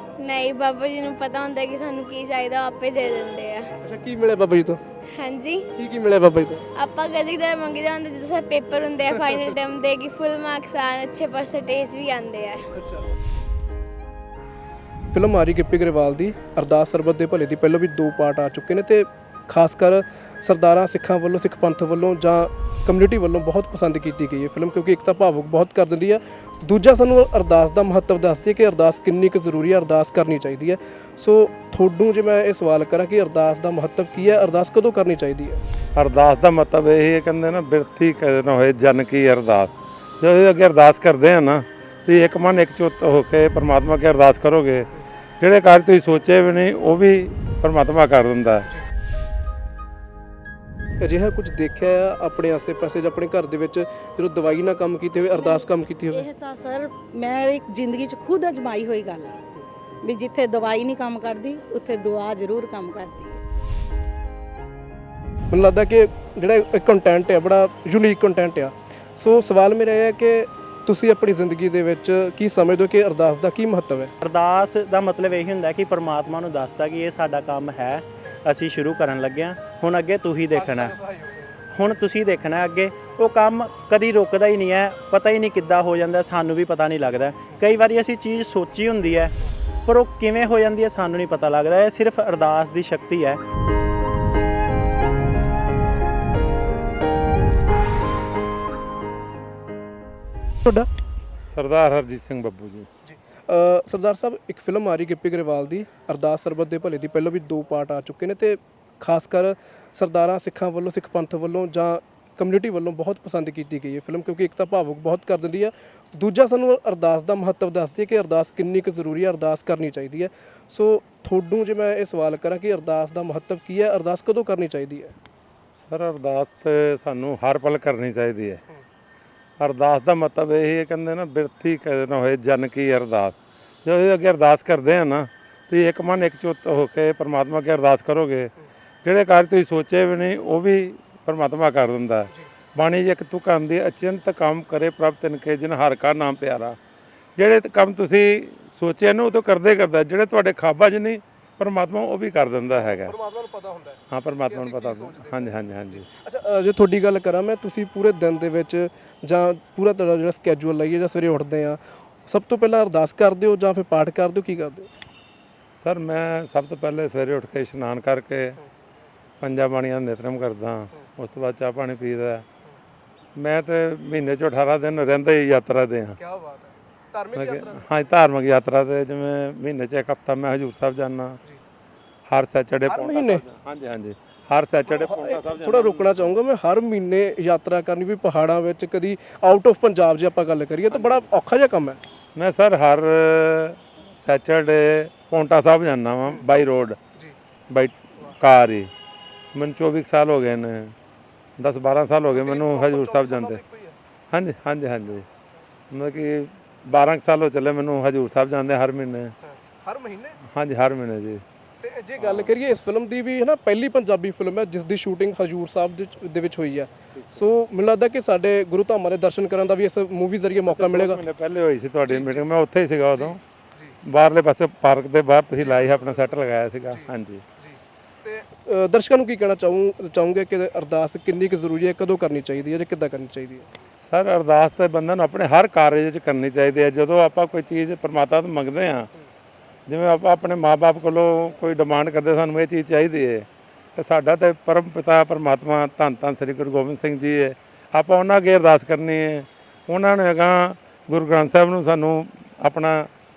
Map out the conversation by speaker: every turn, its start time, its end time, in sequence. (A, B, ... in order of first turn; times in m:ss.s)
0:00.2-0:03.7 A
0:03.8-0:04.8 B
0:05.2-0:05.7 A
0:05.8-0:06.6 B
0:06.8-0:12.6 A
0:12.7-0:13.0 B
0:15.1-0:35.6 B
0:36.0-0:44.9 C
0:45.4-0:48.7 C
0:51.0-0:56.2 B
0:55.3-0:59.3 D
1:00.0-1:03.4 D
1:05.5-1:14.1 B
1:14.2-1:21.0 E
1:20.5-1:21.5 B
1:21.8-1:29.3 E
1:29.9-1:33.4 E
1:41.5-1:42.9 C
1:43.1-2:05.1 B
2:05.7-2:08.6 C
2:09.6-2:18.5 C
2:19.0-2:26.8 C
2:27.4-2:33.2 C
2:32.7-2:44.9 B
2:34.1-2:36.1 C
2:45.8-2:48.6 C
2:49.4-2:52.4 C
2:53.4-2:56.2 C
2:56.2-2:57.9 B
2:57.3-3:01.4 C
3:02.3-3:06.3 C
3:02.9-3:03.4 B
3:04.9-3:12.0 B
3:10.9-3:11.3 C
3:12.4-3:17.0 C
3:17.7-3:18.9 C
3:19.5-3:21.0 C
3:21.6-3:23.6 C
3:22.3-3:24.0 B
3:24.3-3:25.3 C
3:25.9-3:29.3 C
3:29.4-3:30.4 B
3:30.5-3:31.4 C
3:31.8-3:41.2 B
3:32.2-3:32.5 C
3:37.2-3:37.4 C
3:40.7-3:43.4 C
3:42.1-3:42.4 B
3:43.2-3:43.9 B
3:44.0-3:47.4 C
3:47.6-3:53.7 B
3:54.0-3:59.1 C
3:59.9-4:13.1 C